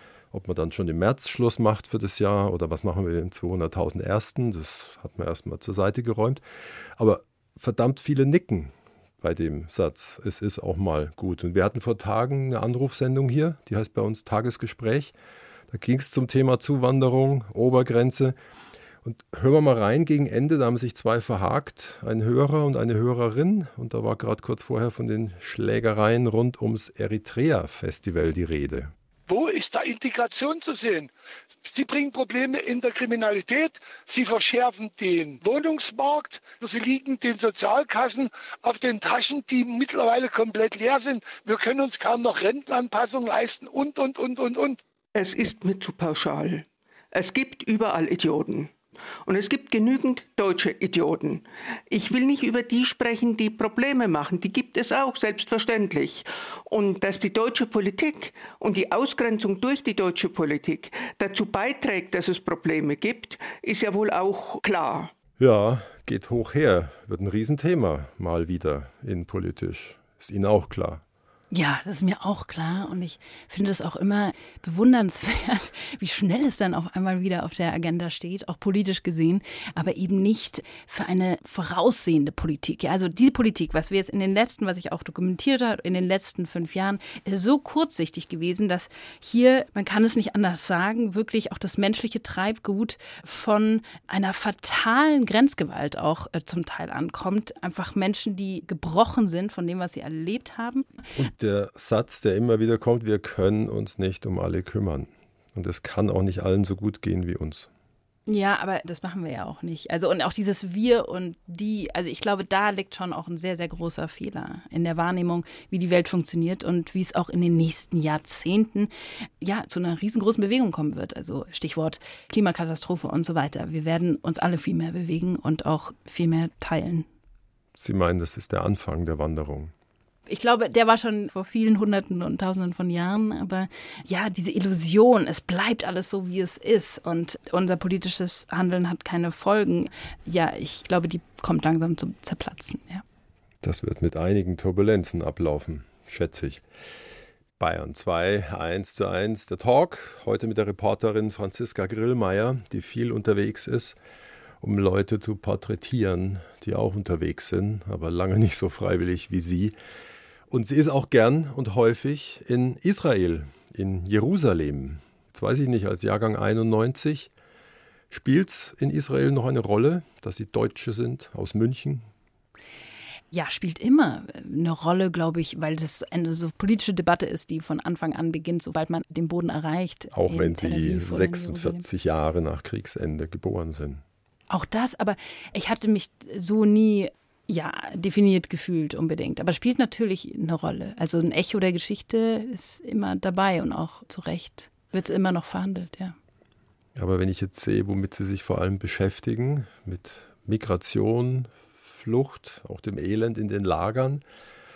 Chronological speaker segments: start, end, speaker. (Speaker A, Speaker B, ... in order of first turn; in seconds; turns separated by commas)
Speaker A: 0.3-6.4, Speaker A: 7.0-15.1, Speaker A: 15.7-18.4, Speaker A: 19.0-28.9, Speaker B: 29.3-31.1, Speaker B: 31.6-44.8, Speaker C: 45.1-65.1, Speaker A: 65.4-71.0, Speaker D: 71.5-100.9, Speaker A: 101.2-107.7, Speaker D: 108.3-118.9, Speaker D: 119.4-127.1, Speaker A: 127.8-129.7, Speaker D: 130.3-143.0, Speaker A: 143.6-146.6, Speaker A: 147.6-154.0, Speaker A: 154.6-159.8, Speaker A: 160.5-167.3, Speaker A: 168.1-172.1, Speaker D: 173.3-181.9, Speaker A: 180.1-184.0, Speaker D: 184.5-196.2, Speaker A: 197.0-204.2